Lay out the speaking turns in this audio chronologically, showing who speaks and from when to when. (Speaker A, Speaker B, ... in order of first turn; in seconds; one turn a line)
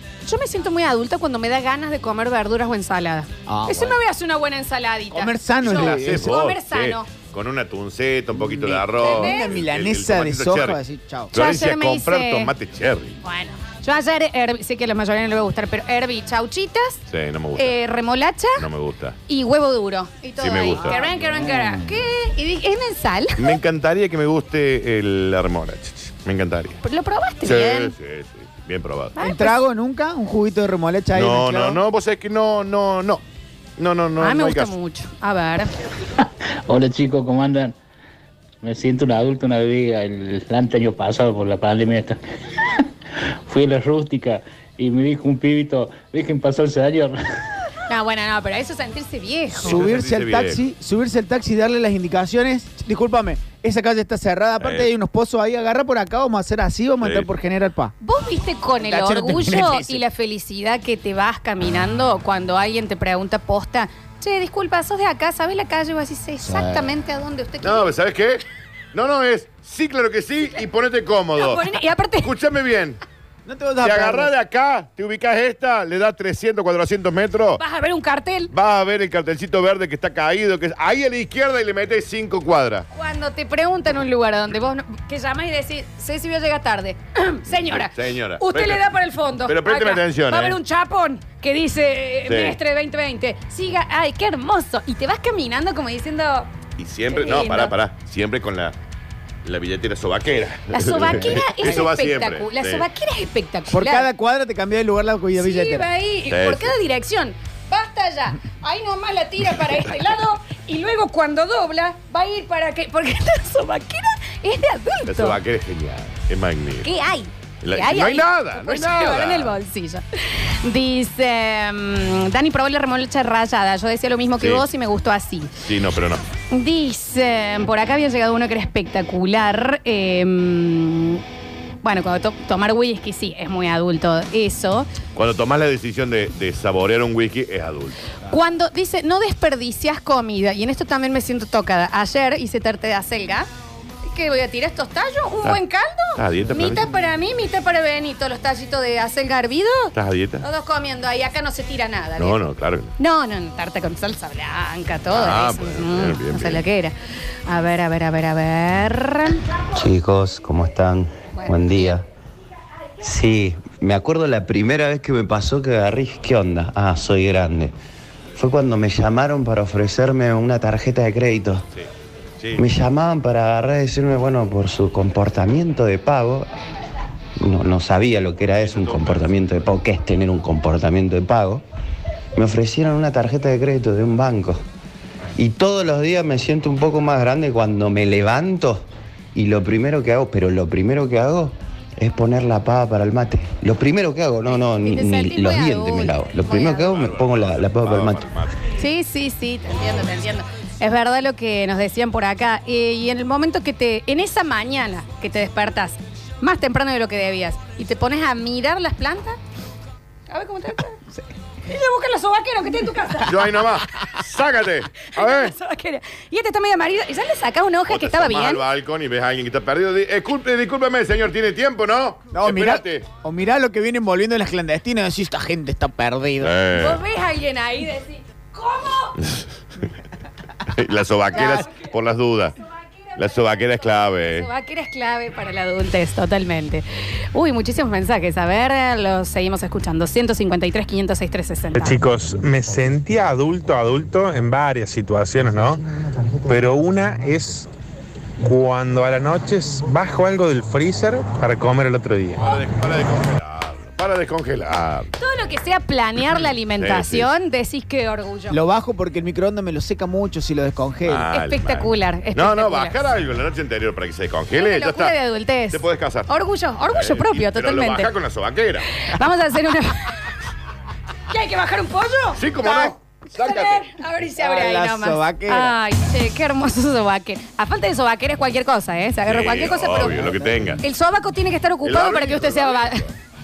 Speaker A: 0.2-7.1
Speaker B: 3.5-4.0
Speaker B: 5.1-6.3
Speaker C: 5.6-10.8
Speaker B: 8.4-11.3
Speaker A: 9.0-9.5
Speaker C: 11.3-13.2
Speaker A: 11.3-12.5
Speaker A: 13.2-17.0
Speaker C: 17.1-17.8
Speaker A: 17.6-18.6
Speaker C: 18.6-19.2
Speaker A: 19.3-23.6
Speaker C: 20.4-21.0
Speaker B: 20.8-21.9
Speaker C: 23.4-26.8
Speaker A: 26.8-27.9
Speaker C: 27.4-29.2
Speaker A: 29.2-29.6
Speaker B: 29.2-31.8
Speaker C: 31.1-33.2
Speaker C: 33.8-34.7
Speaker A: 34.2-35.7
Speaker D: 36.7-37.8
Speaker D: 38.6-42.2
Speaker D: 43.5-47.2
Speaker A: 47.9-49.8
Speaker B: 49.6-57.9
Speaker C: 49.6-50.6
Speaker C: 54.6-54.9
Speaker C: 57.0-57.3
Speaker A: 58.0-67.9
Speaker B: 58.8-60.0
Speaker B: 66.4-66.9
Speaker C: 67.6-73.0
Speaker A: 71.4-72.3
Speaker B: 73.5-74.3
Speaker C: 73.8-77.6
Speaker A: 77.6-78.5
Speaker C: 78.5-82.9
Speaker A: 82.9-96.5
Speaker C: 87.5-88.9
Speaker C: 89.5-90.6
Speaker C: 92.3-92.6
Speaker C: 96.8-98.7
Speaker A: 97.1-97.7
Speaker C: 99.5-102.9
Speaker A: 100.7-104.1
Speaker B: 103.7-105.9
Speaker A: 105.3-115.4
Speaker C: 106.3-106.7
Speaker C: 115.1-116.9
Speaker A: 116.8-125.6
Speaker C: 117.6-119.6
Speaker C: 125.6-126.2
Speaker A: 126.5-131.2
Speaker A: 131.8-134.9
Speaker C: 135.2-138.0
Speaker A: 138.3-143.5
Speaker A: 144.1-152.4
Speaker C: 146.2-146.9
Speaker C: 149.9-150.4
Speaker C: 152.2-152.9
Speaker A: 153.0-159.4
Speaker C: 155.1-156.6
Speaker E: 159.8-162.1
Speaker A: 161.3-162.0
Speaker E: 163.0-167.7
Speaker E: 168.4-171.7
Speaker C: 172.4-172.7
Speaker E: 172.6-176.5
Speaker E: 177.4-181.6
Speaker C: 178.6-179.6
Speaker E: 182.4-184.6
Speaker E: 185.4-198.3
Speaker A: 194.5-196.8
Speaker C: 196.7-198.6
Speaker A: 198.8-209.4
Speaker A: 210.3-211.0
Speaker A: 211.7-213.5
Speaker C: 213.3-215.5
Speaker A: 215.0-218.6
Speaker C: 217.9-223.1
Speaker B: 222.3-226.5
Speaker C: 226.4-227.0
Speaker A: 226.7-229.2
Speaker C: 229.2-229.4
Speaker C: 230.7-232.6
Speaker A: 231.3-231.9
Speaker A: 232.7-242.0
Speaker C: 233.2-234.5
Speaker F: 241.8-245.8
Speaker F: 246.4-247.7
Speaker F: 248.4-252.4
Speaker C: 252.4-255.1
Speaker A: 255.2-258.6
Speaker C: 256.8-257.3
Speaker B: 258.5-261.2
Speaker C: 261.1-265.1
Speaker A: 261.3-263.0
Speaker A: 264.6-268.1
Speaker C: 265.7-266.3
Speaker C: 266.9-269.0
Speaker A: 269.0-270.3
Speaker A: 271.3-283.1
Speaker C: 272.4-273.9
Speaker B: 274.4-275.8
Speaker C: 279.3-280.8
Speaker C: 281.8-283.1